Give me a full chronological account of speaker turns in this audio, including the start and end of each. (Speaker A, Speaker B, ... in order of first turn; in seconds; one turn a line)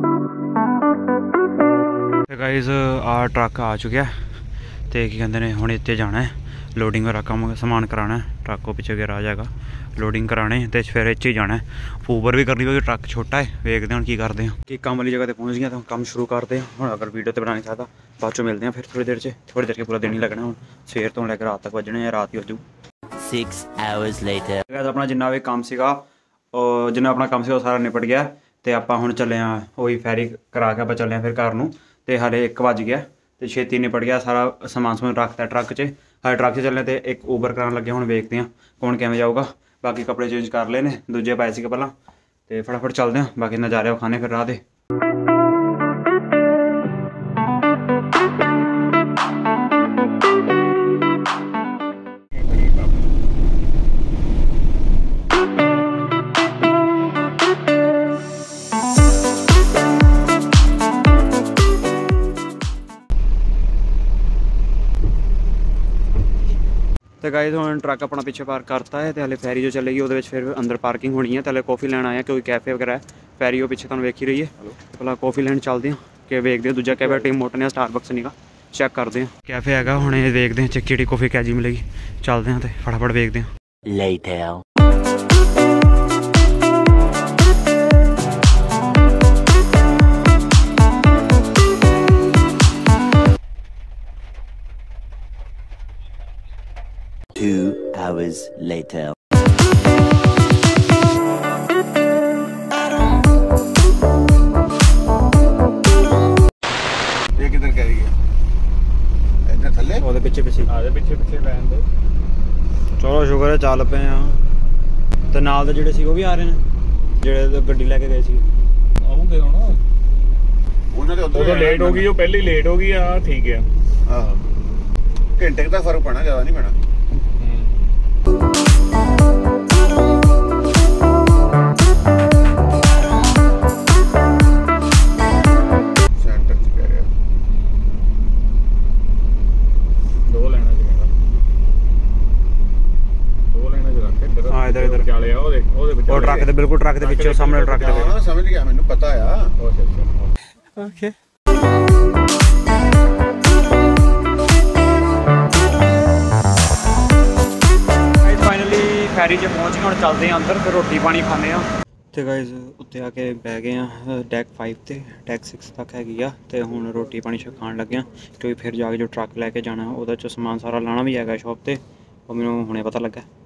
Speaker A: 2.3-4.1
Speaker A: 4.9-22.6
Speaker B: 23.2-24.6
Speaker A: 24.7-41.9
Speaker A: 42.5-44.6
Speaker C: 52.4-52.9
Speaker A: 67.2-83.5
Speaker B: 83.9-84.6
Speaker B: 97.3-99.2
Speaker D: 107.4-108.1
Speaker D: 109.5-110.0
Speaker A: 110.0-110.7
Speaker C: 110.7-111.8
Speaker A: 113.0-114.4
Speaker A: 115.3-116.6
Speaker A: 117.2-118.5
Speaker C: 119.0-119.8
Speaker D: 120.9-122.1
Speaker C: 121.3-123.7
Speaker D: 124.1-124.4
Speaker D: 125.4-126.8
Speaker C: 127.4-127.7
Speaker D: 136.1-137.1
Speaker C: 140.3-141.1
Speaker C: 143.5-146.4
Speaker A: 144.5-145.1
Speaker A: 146.1-148.1
Speaker D: 146.1-146.5
Speaker C: 147.0-148.2
Speaker D: 147.8-149.6
Speaker C: 149.6-150.3
Speaker A: 150.8-151.2
Speaker A: 158.2-173.3